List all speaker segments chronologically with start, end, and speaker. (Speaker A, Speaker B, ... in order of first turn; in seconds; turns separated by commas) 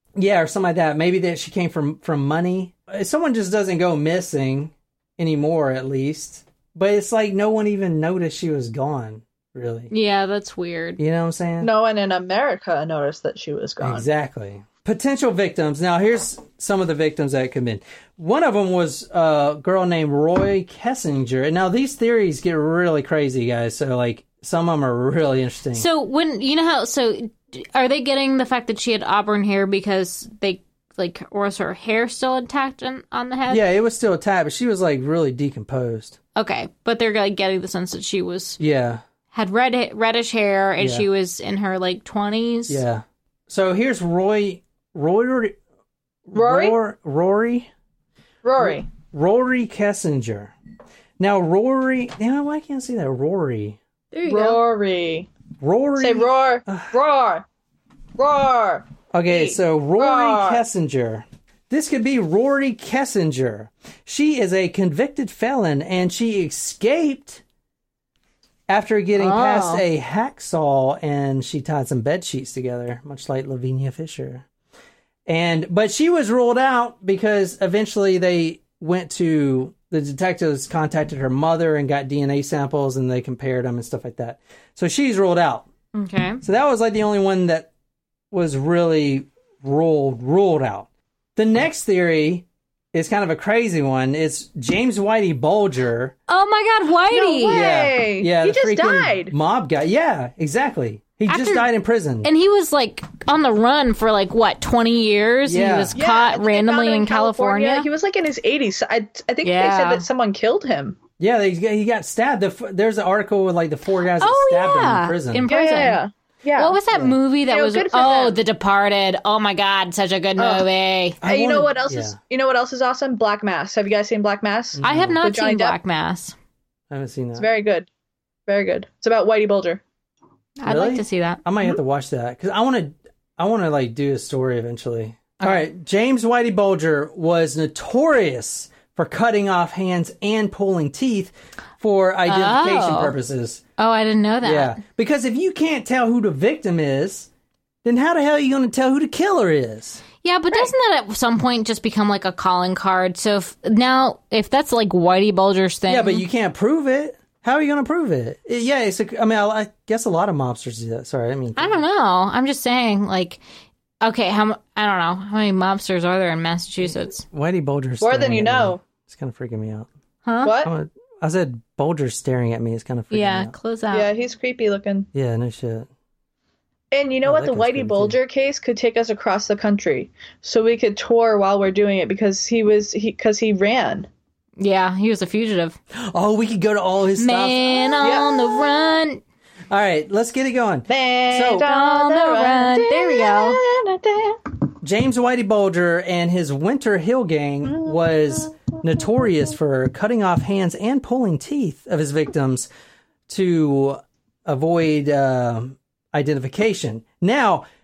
Speaker A: 0.2-9.9, Speaker B: 9.9-11.0, Speaker A: 11.0-11.7, Speaker C: 11.6-14.1, Speaker A: 13.8-25.9, Speaker B: 25.7-33.6, Speaker A: 33.5-36.2, Speaker B: 36.4-38.6, Speaker A: 38.6-39.0, Speaker B: 39.3-42.8, Speaker A: 40.8-41.1, Speaker A: 42.7-45.6, Speaker A: 46.3-47.7, Speaker C: 46.4-46.8, Speaker C: 48.4-48.9, Speaker A: 48.6-50.5, Speaker A: 51.2-53.8, Speaker B: 54.1-54.6, Speaker C: 54.2-55.3, Speaker A: 55.6-56.9, Speaker C: 56.0-57.5, Speaker C: 58.2-60.6, Speaker A: 59.1-67.4, Speaker A: 68.7-74.5, Speaker B: 69.2-69.8, Speaker A: 75.3-85.7, Speaker B: 85.9-86.4, Speaker A: 86.4-87.7, Speaker A: 88.3-96.1, Speaker B: 96.3-97.7, Speaker C: 97.1-99.3, Speaker A: 97.5-102.3, Speaker B: 101.3-101.7, Speaker B: 102.2-107.9, Speaker A: 105.5-106.0, Speaker C: 106.0-111.0, Speaker B: 109.4-110.0, Speaker A: 111.2-115.5, Speaker B: 114.2-116.0, Speaker C: 115.5-116.8, Speaker B: 116.6-121.2, Speaker A: 116.9-117.2, Speaker C: 117.5-118.4, Speaker C: 120.4-120.7, Speaker A: 121.2-122.2, Speaker C: 121.2-125.8, Speaker A: 124.8-125.2, Speaker B: 124.8-126.3, Speaker A: 126.9-127.5, Speaker C: 127.4-127.9, Speaker C: 128.5-129.8, Speaker B: 130.6-131.4, Speaker A: 130.7-143.6, Speaker B: 142.3-143.1, Speaker B: 143.8-144.8, Speaker A: 144.4-147.3, Speaker A: 147.8-150.0, Speaker B: 150.2-156.2, Speaker A: 155.9-161.8, Speaker B: 161.6-163.4, Speaker B: 164.0-167.2, Speaker A: 166.8-169.9, Speaker C: 168.0-168.8, Speaker B: 170.2-170.5, Speaker C: 170.4-170.7, Speaker A: 170.6-173.5, Speaker B: 173.1-174.1, Speaker C: 173.9-175.1, Speaker A: 175.1-175.9, Speaker C: 176.9-184.1, Speaker A: 177.2-178.2, Speaker B: 184.6-185.8, Speaker A: 185.9-188.2, Speaker B: 187.2-189.2, Speaker C: 188.0-188.6, Speaker A: 189.7-191.7, Speaker C: 190.9-194.5, Speaker B: 191.6-193.6, Speaker A: 194.8-202.7, Speaker C: 197.6-199.3, Speaker A: 203.3-207.7